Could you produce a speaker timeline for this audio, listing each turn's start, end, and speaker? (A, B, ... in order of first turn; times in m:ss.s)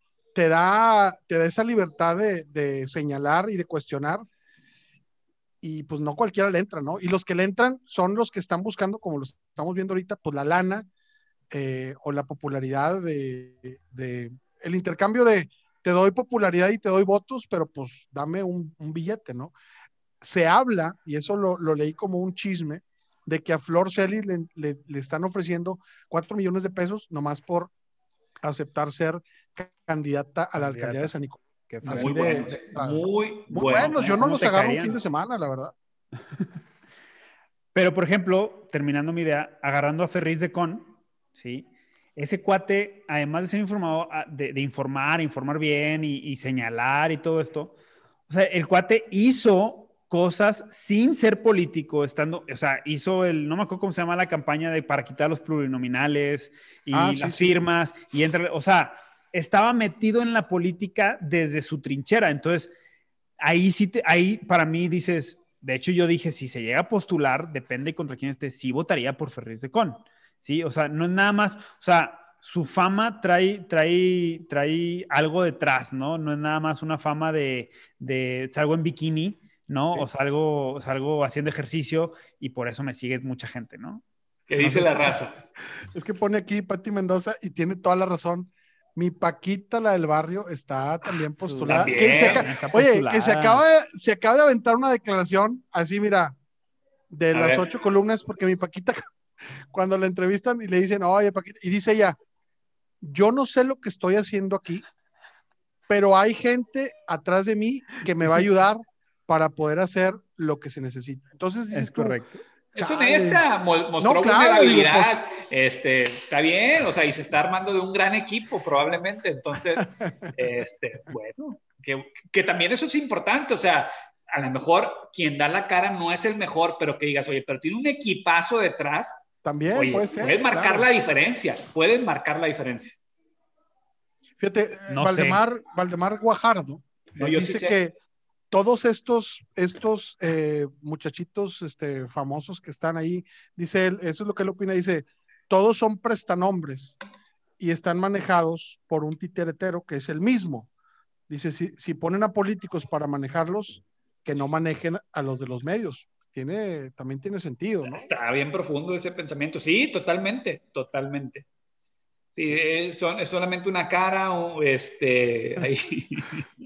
0:00.3-0:04.2 A
0:05.6-0:10.9 A
0:11.5-0:19.5 A
0:20.2-0:27.7 A
0:28.4-0:35.7 A
0:30.6-0:31.1 B
0:31.7-0:32.5 B
0:31.8-0:34.0 C
0:33.5-0:35.0 B
0:37.7-0:47.7 B
0:48.3-1:02.7 B
0:56.9-0:57.5 A
1:03.4-1:24.0 B
1:24.5-1:25.4 C
1:24.6-1:25.1 A
1:25.9-1:36.4 A
1:31.4-1:33.6 B
1:31.7-1:32.4 C
1:37.1-1:39.0 A
1:37.3-1:37.6 C
1:39.7-1:42.2 A
1:43.0-1:44.8 A
1:45.9-1:52.2 A
1:51.7-1:52.4 B
1:52.7-1:53.4 A
1:52.7-2:13.0 C
1:54.0-1:55.2 A
2:09.4-2:10.9 A
2:14.4-2:18.0 A
2:14.9-2:15.4 B
2:17.2-2:17.8 C
2:18.5-2:27.0 A
2:27.6-2:30.7 A
2:31.3-2:38.0 A
2:37.9-2:41.4 C
2:42.3-2:46.5 C